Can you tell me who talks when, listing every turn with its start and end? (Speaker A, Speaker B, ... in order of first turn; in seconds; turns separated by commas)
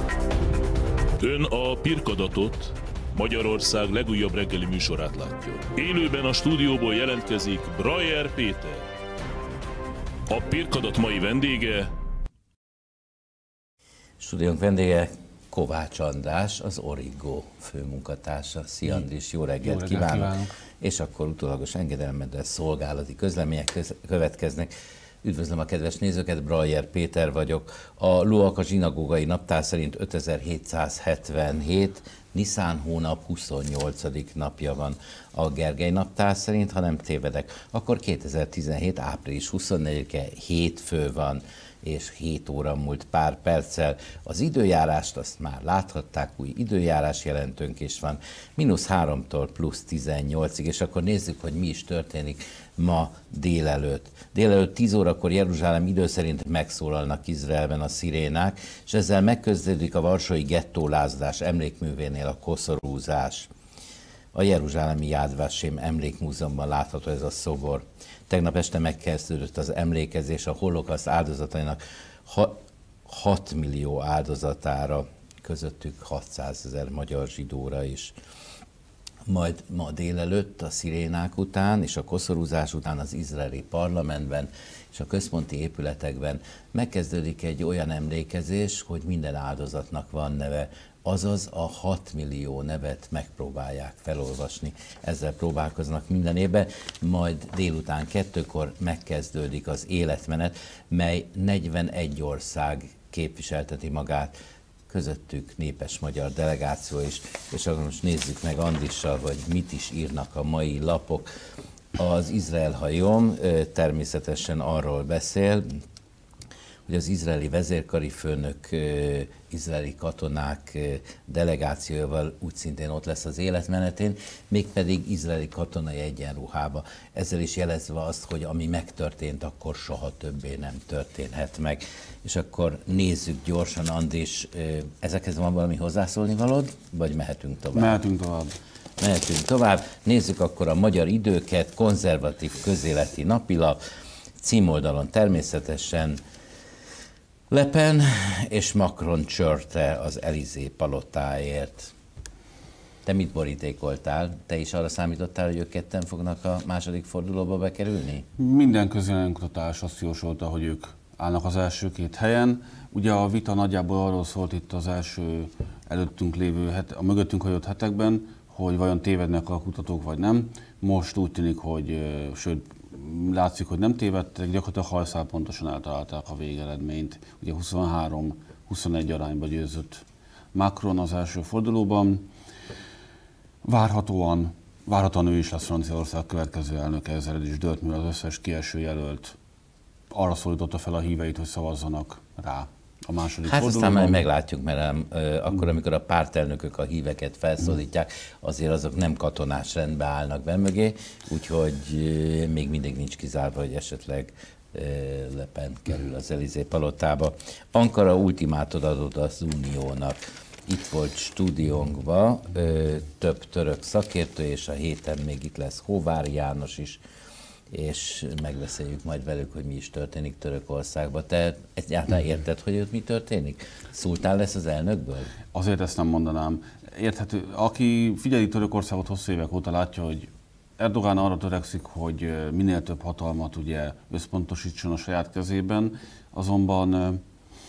Speaker A: 1.2-8.8, Speaker A: 10.3-11.9, Speaker B: 14.2-24.7, Speaker C: 19.6-20.5, Speaker B: 25.2-63.5, Speaker B: 64.3-78.1, Speaker B: 79.2-104.3, Speaker B: 104.9-111.3, Speaker B: 112.0-115.7, Speaker B: 116.9-138.0, Speaker C: 137.7-138.6, Speaker B: 139.0-143.8, Speaker B: 144.4-146.2, Speaker B: 147.5-151.9, Speaker B: 153.0-158.2, Speaker C: 158.4-182.3, Speaker C: 183.6-189.4, Speaker C: 190.1-194.2, Speaker B: 193.4-217.0, Speaker B: 217.7-225.3, Speaker C: 225.5-237.2